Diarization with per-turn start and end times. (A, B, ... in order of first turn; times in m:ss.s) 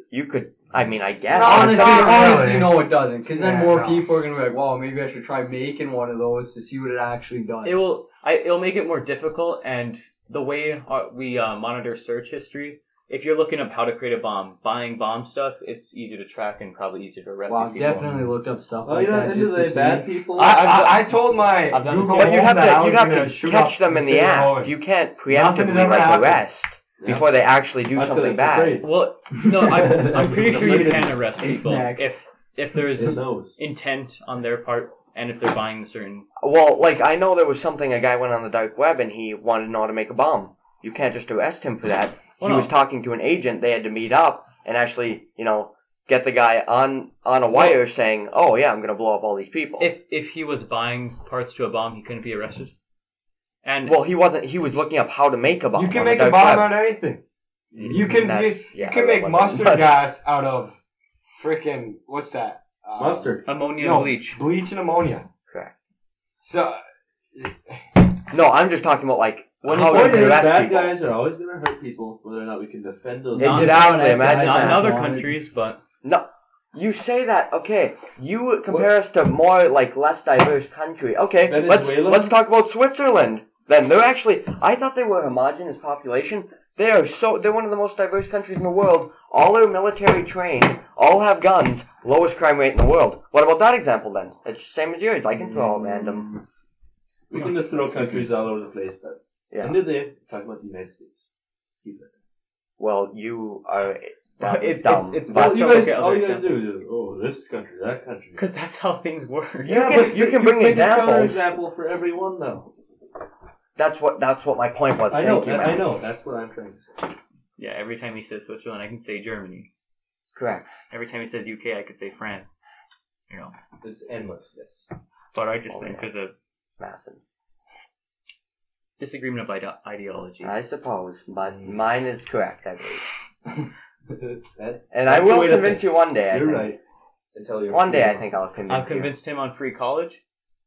0:00.1-0:02.5 A
0:01.3-0:04.1 B
0:01.4-0:07.9 C
0:07.6-0:18.3 D
0:17.5-0:20.1 C
0:18.8-0:21.0 E
0:20.4-0:24.7 B
0:20.6-0:21.0 D
0:21.7-0:22.3 D
0:22.1-0:28.8 A
0:25.3-0:26.4 B
0:27.0-0:28.9 E
0:28.8-0:36.3 D
0:29.7-0:30.2 C
0:29.8-0:31.2 E
0:31.4-0:32.1 C
0:33.0-0:33.6 E
0:36.4-0:49.9 A
0:42.4-0:42.7 D
0:49.8-0:52.7 D
0:53.6-0:54.0 D
0:53.8-0:56.8 A
0:55.8-0:57.2 B
0:57.7-0:58.2 E
0:57.8-1:00.0 A
0:57.9-1:00.8 B
1:01.4-1:05.2 B
1:03.0-1:03.4 E
1:03.4-1:04.4 D
1:05.5-1:05.7 A
1:06.4-1:06.8 B
1:07.3-1:07.8 B
1:08.3-1:11.0 A
1:09.6-1:13.8 E
1:09.8-1:10.4 D
1:13.4-1:14.9 A
1:13.4-1:15.8 D
1:13.4-1:15.3 C
1:16.0-1:36.4 A
1:21.4-1:22.4 E
1:35.3-1:36.4 E
1:37.3-1:42.1 E
1:37.3-1:38.3 D
1:39.5-1:39.9 A
1:42.8-1:45.8 A
1:44.4-1:46.6 D
1:45.3-1:48.4 E
1:48.4-1:49.9 D
1:49.6-1:51.4 A
1:49.7-1:52.7 E
1:53.8-1:55.9 A
1:55.1-1:57.1 E
1:57.6-1:59.7 D
2:00.3-2:00.8 A
2:00.9-2:02.6 D
2:03.8-2:04.9 E
2:05.3-2:06.3 D
2:05.7-2:06.1 A
2:06.8-2:07.2 A
2:09.0-2:10.5 D
2:10.4-2:13.1 A
2:11.5-2:11.8 E
2:14.2-2:16.8 E
2:14.9-2:16.7 A
2:17.3-2:18.5 E
2:17.7-2:19.1 A
2:18.7-2:20.2 D